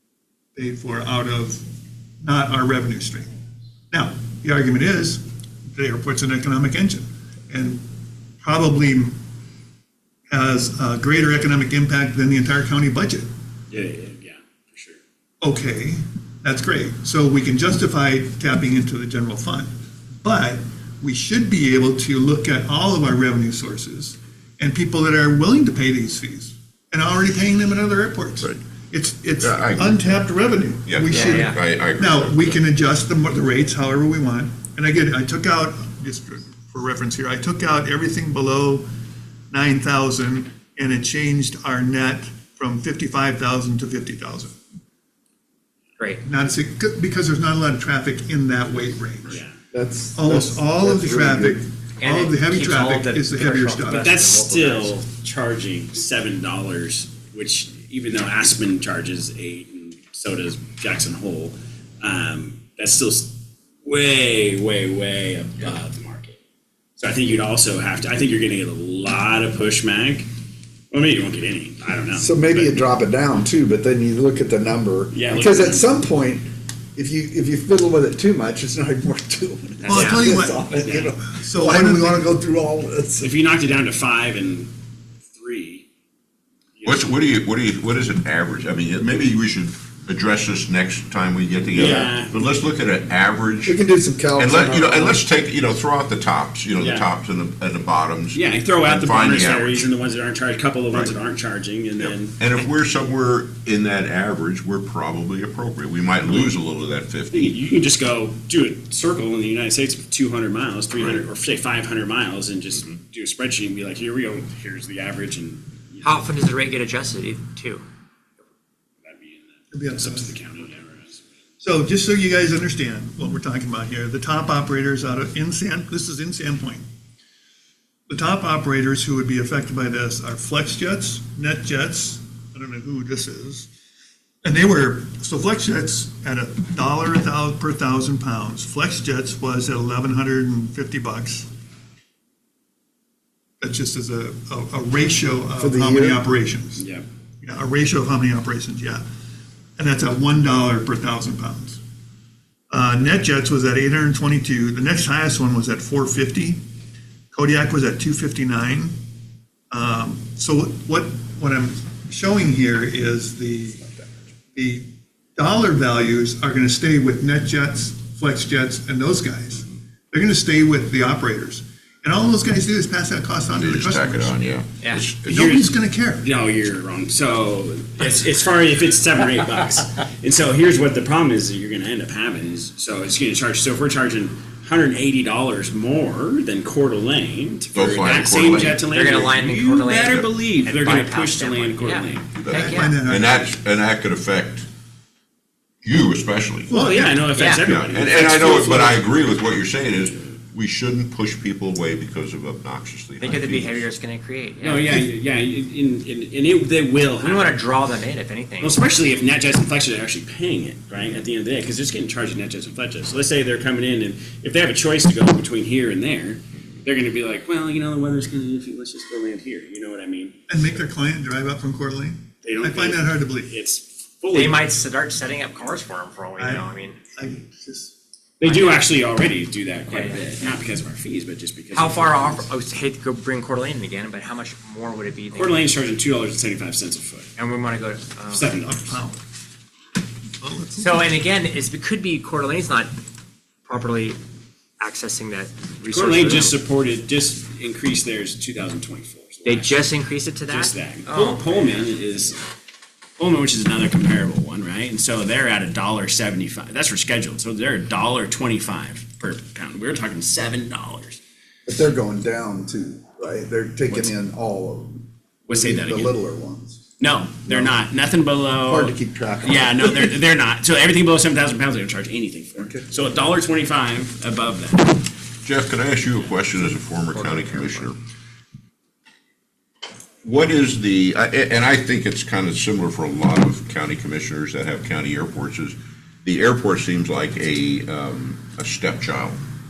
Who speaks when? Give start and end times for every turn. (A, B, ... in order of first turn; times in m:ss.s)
0:00.6-0:01.6 A
0:02.2-0:03.3 A
0:03.9-0:05.2 A
0:05.7-0:07.9 A
0:08.4-0:09.2 A
0:10.3-0:13.3 A
0:13.7-0:15.0 B
0:15.4-0:19.7 A
0:20.2-0:38.9 A
0:29.4-0:30.2 C
0:30.9-0:32.6 C
0:31.1-0:31.6 D
0:39.5-0:44.6 A
0:46.2-0:49.4 A
0:49.3-0:49.6 B
0:49.7-0:51.6 E
0:50.2-0:54.1 A
0:52.0-0:55.0 D
0:53.9-1:06.4 B
1:07.0-1:10.3 B
1:10.9-1:12.9 B
1:12.1-1:23.3 E
1:15.1-1:15.9 B
1:19.8-1:21.1 B
1:19.9-1:22.3 A
1:19.9-1:20.2 D
1:23.2-1:24.7 B
1:25.3-1:25.8 B
1:26.8-1:27.1 B
1:26.8-1:33.8 C
1:31.7-1:32.4 B
1:33.6-1:35.3 E
1:34.4-1:39.9 C
1:36.8-1:37.1 B
1:38.3-1:42.4 B
1:42.0-1:47.5 C
1:47.3-1:56.2 B
1:51.0-1:51.2 C
1:56.0-1:57.8 D
1:59.0-2:01.3 B
1:59.7-2:00.4 A
2:01.6-2:06.8 A
2:08.1-2:13.7 A
2:14.4-2:21.5 A
2:23.6-2:26.8 A
2:25.6-2:26.2 E
2:26.8-2:27.1 B
2:27.4-2:29.0 A
2:29.8-2:31.8 A
2:32.7-2:36.6 A
2:37.3-2:39.0 A
2:39.7-2:43.8 A
2:44.5-2:54.4 A
2:53.6-2:55.5 C
2:55.3-2:56.3 A
2:55.3-3:12.3 B
3:07.7-3:08.8 C
3:08.8-3:13.0 D
3:12.3-3:14.7 C
3:12.5-3:13.5 A
3:15.8-3:16.7 C
3:16.7-3:17.3 A
3:16.7-3:19.1 B
3:17.3-3:17.6 D
3:17.7-3:23.9 C
3:23.2-3:25.0 D
3:24.6-3:27.6 B
3:27.2-3:28.8 D
3:28.6-3:40.4 B
3:40.5-3:43.5 A
3:42.4-3:44.7 B
3:44.3-3:47.0 D
3:46.4-3:48.0 A
3:48.4-3:52.5 B
3:48.4-3:48.8 D
3:49.9-3:50.5 D
3:51.7-3:55.6 D
3:55.3-3:57.3 B
3:57.4-3:58.5 D
3:58.3-3:59.0 B
3:58.6-3:59.2 A
4:00.4-4:01.0 A
4:00.8-4:02.9 D
4:03.7-4:04.2 D
4:04.8-4:06.6 D
4:05.9-4:09.8 B
4:09.5-4:11.8 D
4:10.5-4:12.4 B
4:13.2-4:21.2 B
4:21.7-4:26.8 E
4:23.9-4:24.1 B
4:25.5-4:26.1 B
4:27.0-4:35.0 B
4:27.5-4:27.7 E
4:28.6-4:30.1 E
4:32.6-4:32.9 E
4:35.4-4:38.0 C
4:40.2-4:49.4 C